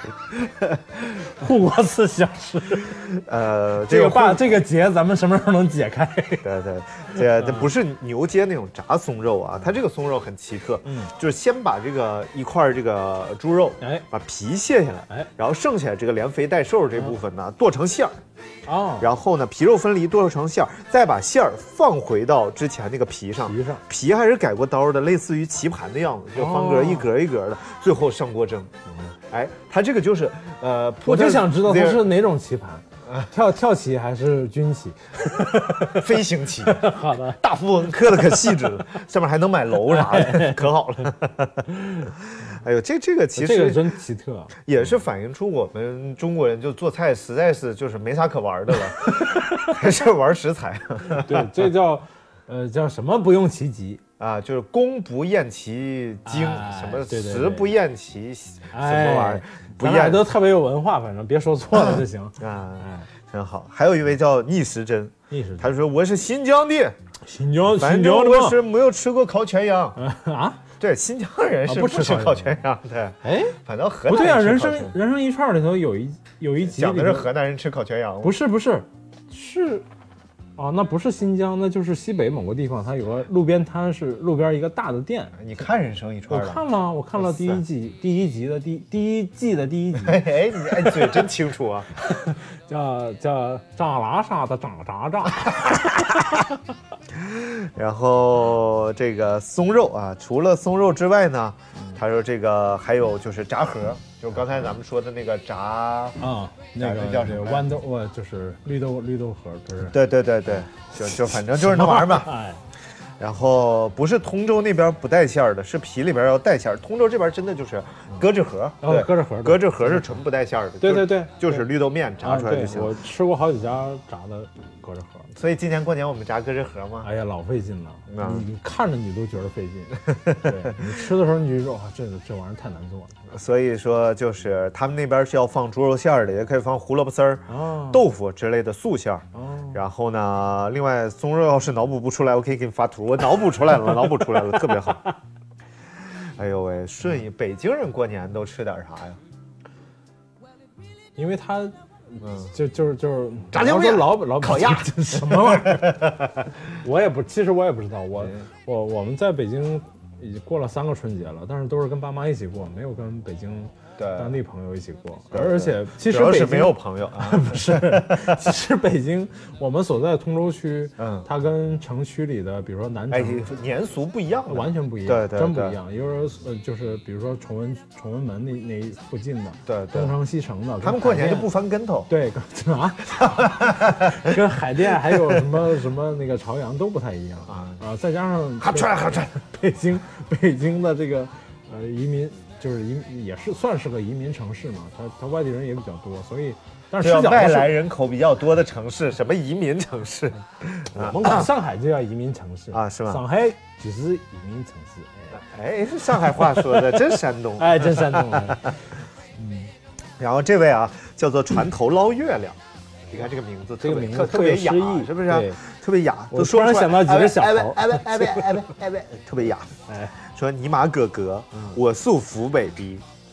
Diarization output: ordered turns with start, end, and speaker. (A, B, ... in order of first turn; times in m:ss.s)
0:00.3-0:01.2 A
0:01.3-0:03.0 B
0:02.9-0:04.6 A
0:03.8-0:06.5 B
0:06.4-0:18.2 A
0:07.4-0:07.7 B
0:10.8-0:11.1 B
0:13.8-0:14.1 B
0:18.7-0:19.1 B
0:19.0-0:28.7 A
0:23.4-0:23.8 B
0:26.4-0:27.1 B
0:29.3-0:32.1 A
0:31.0-0:36.1 B
0:35.9-0:43.9 A
0:36.7-0:37.4 B
0:39.9-0:40.7 B
0:41.7-0:42.1 B
0:43.4-0:44.6 B
0:44.7-0:51.6 A
0:49.1-0:49.8 B
0:51.0-0:54.0 B
0:54.2-1:00.3 A
0:56.2-0:57.7 B
0:58.7-1:03.1 B
1:01.7-1:07.0 A
1:05.3-1:05.7 B
1:07.2-1:08.6 B
1:07.7-1:10.0 A
1:10.0-1:10.6 B
1:10.8-1:15.0 A
1:11.7-1:12.6 B
1:13.2-1:17.3 B
1:16.6-1:18.4 A
1:18.2-1:19.9 B
1:20.6-1:25.5 B
1:25.4-1:26.6 A
1:26.3-1:30.2 B
1:27.2-1:27.6 A
1:30.0-1:31.9 A
1:30.8-1:31.2 B
1:32.0-1:36.5 B
1:37.1-1:46.2 A
1:46.2-1:50.0 B
1:46.8-1:47.8 A
1:49.8-1:52.4 A
1:51.5-1:52.6 B
1:53.2-2:03.0 A
1:58.8-2:00.2 B
2:00.8-2:01.7 B
2:02.2-2:05.3 B
2:05.4-2:07.1 A
2:07.0-2:13.2 B
2:08.1-2:08.5 A
2:10.1-2:10.8 A
2:13.3-2:25.0 A
2:17.5-2:18.0 B
2:19.3-2:19.8 B
2:26.4-2:29.2 A
2:31.2-2:36.1 B
2:32.2-2:32.5 A
2:33.5-2:36.5 A
2:36.8-2:53.5 B
2:38.2-2:38.4 A
2:44.0-2:44.4 A
2:45.3-2:48.4 A
2:51.0-2:51.3 A
2:53.1-2:55.8 A
2:54.5-3:01.5 B
2:59.7-3:00.2 A
3:00.8-3:02.1 A
3:02.1-3:17.8 B
3:03.2-3:04.4 A
3:05.1-3:05.4 A
3:07.5-3:07.8 A
3:08.6-3:09.3 A
3:17.0-3:21.5 A
3:20.9-3:25.4 B
3:22.7-3:23.2 A
3:25.4-3:28.7 A
3:27.6-3:28.8 B
3:29.4-3:29.7 B
3:30.2-3:32.6 A
3:33.1-3:43.0 A
3:33.8-3:35.6 B
3:36.3-3:38.7 B
3:39.9-3:40.2 B